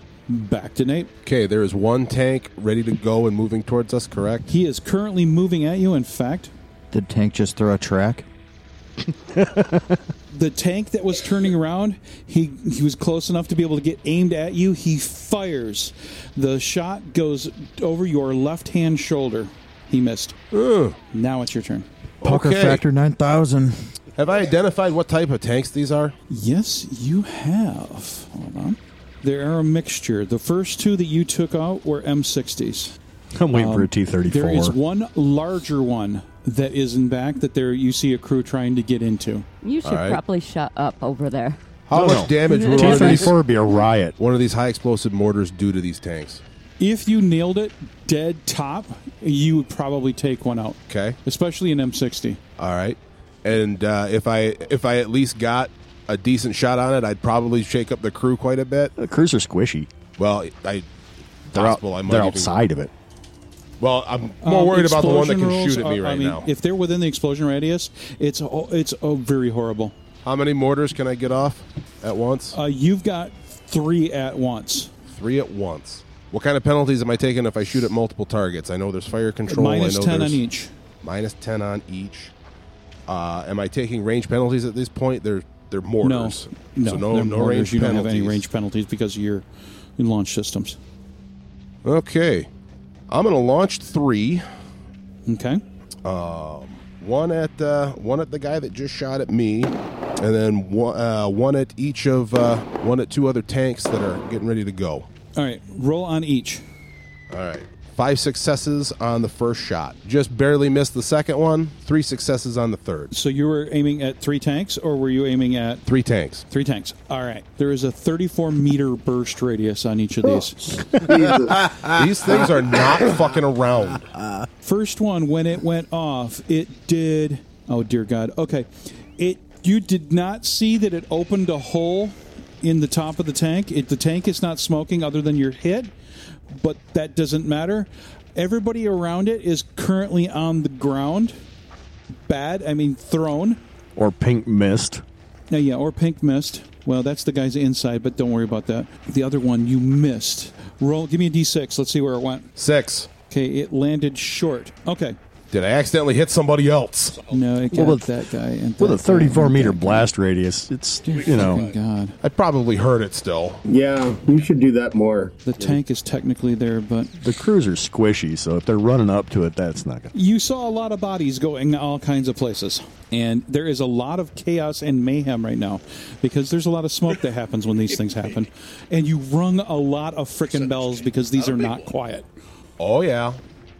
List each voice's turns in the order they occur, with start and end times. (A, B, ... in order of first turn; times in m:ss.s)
0:00.3-0:01.1 A
0:01.2-0:04.4 B
0:04.5-0:06.5 A
0:06.9-0:08.2 C
0:10.3-0:20.4 A
0:20.5-0:21.0 B
0:21.1-0:21.9 A
0:22.2-0:22.8 B
0:22.2-0:23.9 C
0:24.2-0:26.1 B
0:26.3-0:32.9 A
0:33.3-0:34.8 D
0:33.5-0:39.4 A
0:39.6-0:41.6 E
0:39.8-0:40.2 B
0:41.9-0:43.4 B
0:41.9-0:44.2 D
0:42.9-0:43.1 E
0:44.2-0:46.4 B
0:46.8-0:52.4 A
0:50.9-0:51.2 B
0:52.6-0:58.9 B
0:59.0-0:59.9 D
1:00.2-1:00.8 B
1:01.4-1:02.5 B
1:01.5-1:02.9 D
1:03.8-1:06.5 B
1:04.4-1:09.9 A
1:10.2-1:12.6 B
1:12.5-1:14.9 A
1:15.1-1:20.4 B
1:19.5-1:20.7 A
1:21.0-1:22.3 B
1:23.1-1:28.4 B
1:26.0-1:29.4 A
1:30.0-1:30.8 A
1:31.8-1:32.5 B
1:33.1-1:34.4 B
1:35.3-1:35.6 A
1:36.0-1:45.1 B
1:45.4-1:46.6 A
1:47.3-1:53.1 B
1:53.1-1:55.8 A
1:55.8-1:56.4 B
1:56.5-2:00.8 A
2:00.9-2:01.7 F
2:01.8-2:04.1 B
2:04.6-2:15.9 A
2:16.5-2:21.4 A
2:22.2-2:23.6 A
2:24.0-2:25.0 D
2:25.5-2:32.5 A
2:32.6-2:33.1 B
2:33.3-2:35.2 A
2:35.5-2:37.2 B
2:37.3-2:40.1 A
2:37.7-2:38.1 D
2:38.8-2:41.7 D
2:41.0-2:42.2 A
2:42.2-2:43.6 B
2:43.6-2:45.4 F
2:45.4-2:47.1 A
2:47.2-2:50.1 D
2:50.1-3:02.3 A
3:02.8-3:03.4 B